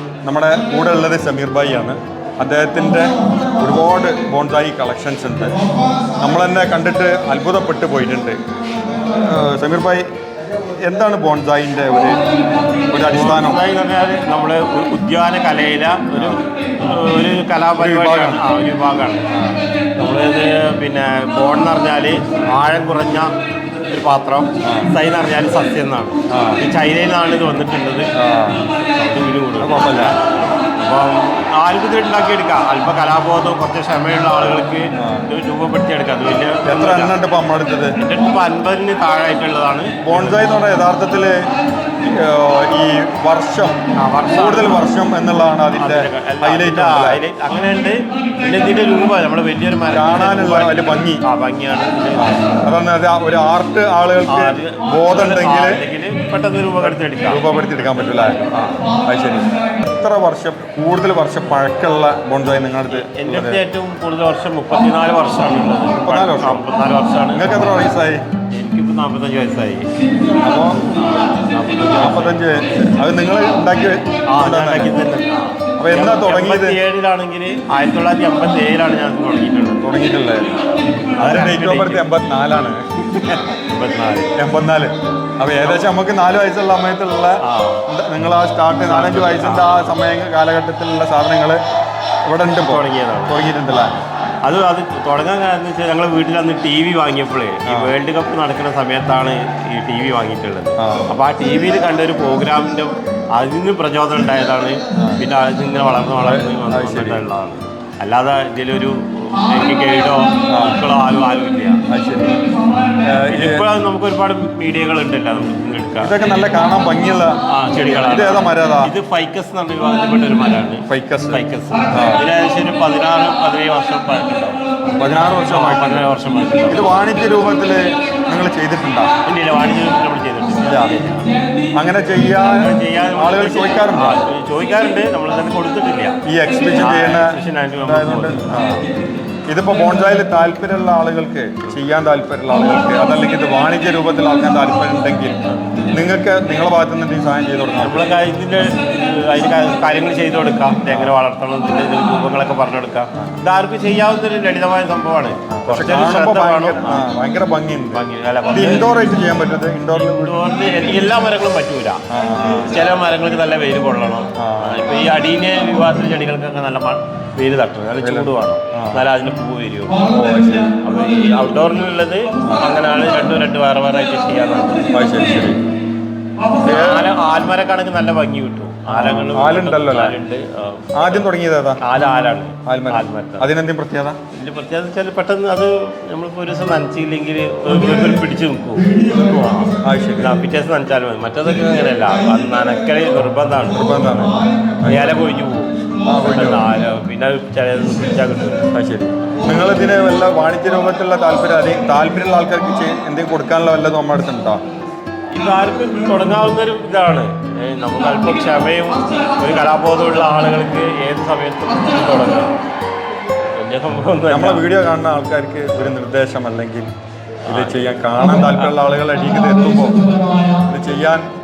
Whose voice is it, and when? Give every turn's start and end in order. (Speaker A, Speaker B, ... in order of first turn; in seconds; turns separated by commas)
Speaker A: 0.2-5.6, Speaker A: 6.2-8.4, Speaker A: 9.0-10.0, Speaker A: 10.8-12.2, Speaker A: 12.9-13.6, Speaker B: 13.1-19.2, Speaker A: 16.1-16.4, Speaker A: 17.8-18.4, Speaker B: 20.0-23.3, Speaker B: 23.9-28.1, Speaker A: 24.6-24.9, Speaker A: 26.3-26.6, Speaker A: 28.2-28.6, Speaker B: 28.8-30.1, Speaker A: 29.6-30.1, Speaker B: 30.8-37.2, Speaker A: 35.0-35.3, Speaker A: 36.7-38.0, Speaker B: 38.0-40.5, Speaker A: 40.1-41.3, Speaker A: 42.0-43.8, Speaker B: 44.0-44.9, Speaker A: 44.3-47.2, Speaker B: 45.7-52.7, Speaker A: 49.9-51.2, Speaker A: 52.1-55.8, Speaker B: 54.3-58.7, Speaker A: 56.8-63.6, Speaker B: 62.9-67.5, Speaker A: 66.0-66.6, Speaker A: 67.3-68.2, Speaker B: 68.5-69.9, Speaker A: 70.4-70.8, Speaker B: 70.8-72.6, Speaker A: 72.0-74.9, Speaker B: 74.3-79.8, Speaker A: 75.8-76.8, Speaker A: 79.8-80.5, Speaker B: 81.2-82.0, Speaker A: 81.2-82.8, Speaker B: 83.2-84.3, Speaker A: 84.3-91.6, Speaker B: 85.6-85.9, Speaker B: 87.4-87.8, Speaker B: 88.8-90.0, Speaker A: 92.3-94.0, Speaker B: 92.6-93.9, Speaker B: 94.4-111.8, Speaker A: 97.7-97.9, Speaker A: 100.8-101.1, Speaker A: 105.0-105.2, Speaker A: 106.2-107.2, Speaker A: 110.5-110.8, Speaker A: 111.9-112.4, Speaker A: 113.0-113.6, Speaker B: 113.2-116.2, Speaker A: 116.0-118.9, Speaker B: 117.5-124.6, Speaker A: 120.9-121.4, Speaker A: 121.9-122.2, Speaker A: 125.0-126.0, Speaker B: 125.5-126.9, Speaker A: 126.7-129.1, Speaker B: 129.3-131.3, Speaker A: 130.7-130.9, Speaker A: 131.8-134.2, Speaker B: 132.4-136.2, Speaker A: 136.3-138.8, Speaker B: 136.8-138.7, Speaker A: 139.5-148.2, Speaker B: 145.5-145.8, Speaker B: 147.8-157.1, Speaker A: 150.9-151.1, Speaker A: 155.5-160.4, Speaker B: 157.9-158.9, Speaker B: 159.9-162.0, Speaker A: 162.1-162.8, Speaker B: 162.6-170.1, Speaker A: 164.4-164.8, Speaker A: 168.0-169.1, Speaker A: 170.1-170.8, Speaker B: 170.7-174.9, Speaker A: 174.9-175.6, Speaker B: 176.6-181.3, Speaker A: 176.6-177.1, Speaker A: 178.9-180.2, Speaker A: 181.0-181.8, Speaker B: 181.8-183.5, Speaker A: 182.7-184.2, Speaker B: 184.3-194.3, Speaker A: 189.8-190.4, Speaker A: 193.7-195.2, Speaker B: 194.8-198.7, Speaker A: 196.1-196.6, Speaker A: 198.7-204.6, Speaker B: 205.3-212.6, Speaker B: 213.5-214.6, Speaker A: 214.3-216.9, Speaker B: 217.5-218.7, Speaker A: 217.5-220.0, Speaker A: 220.7-221.2